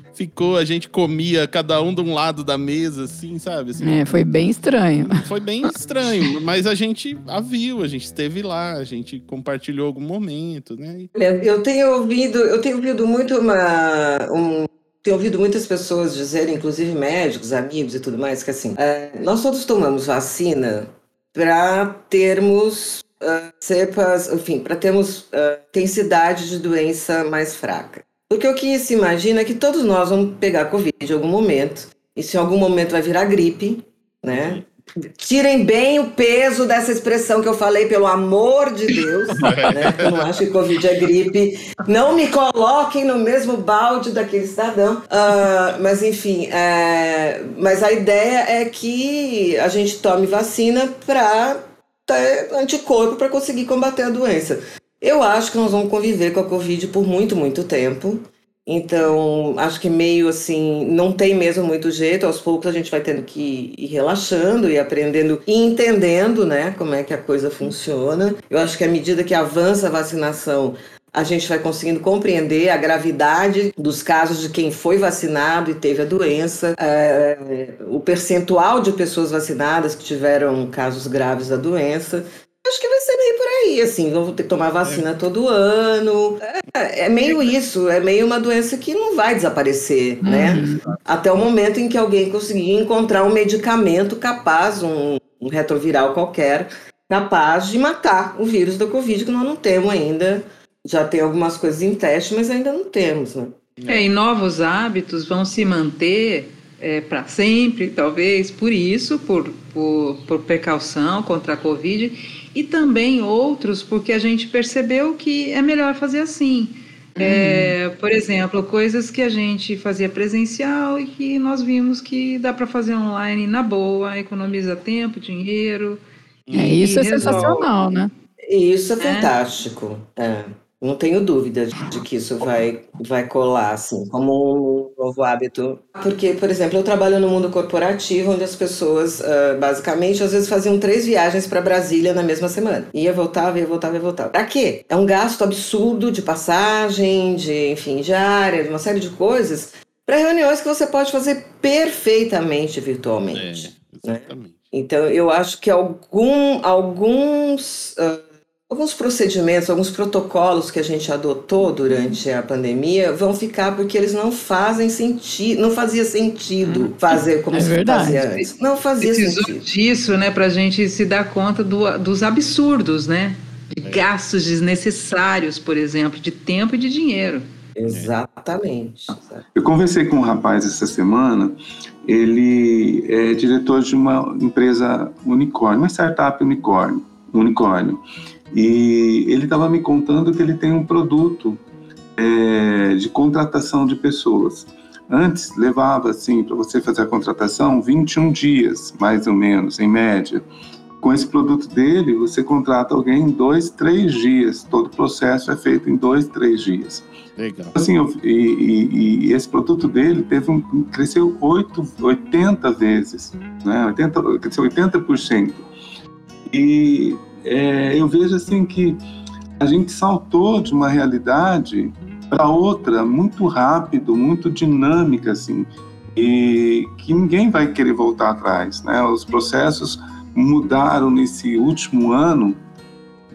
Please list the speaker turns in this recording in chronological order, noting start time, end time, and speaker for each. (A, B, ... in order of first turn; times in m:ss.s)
0:00.1-0:04.0 A
0:03.8-0:05.2 B
0:05.1-0:11.1 A
0:11.2-1:43.6 C
0:34.3-0:34.6 A
0:39.4-0:40.2 A
1:30.2-1:30.8 B
1:43.8-1:44.1 A
1:43.9-2:06.0 D
1:57.2-1:57.8 B
2:06.5-2:06.7 A
2:06.5-2:07.7 D
2:06.5-2:08.1 B
2:08.5-2:49.6 C
2:09.0-2:09.3 D
2:33.3-2:34.6 A
2:47.5-2:48.4 B
2:49.0-2:57.4 D
2:57.8-2:59.5 C
2:59.6-3:11.6 E
3:12.2-3:20.4 E
3:21.0-3:27.0 E
3:27.4-3:27.8 A
3:27.8-3:35.7 E
3:36.5-3:39.0 E
3:39.6-3:52.6 E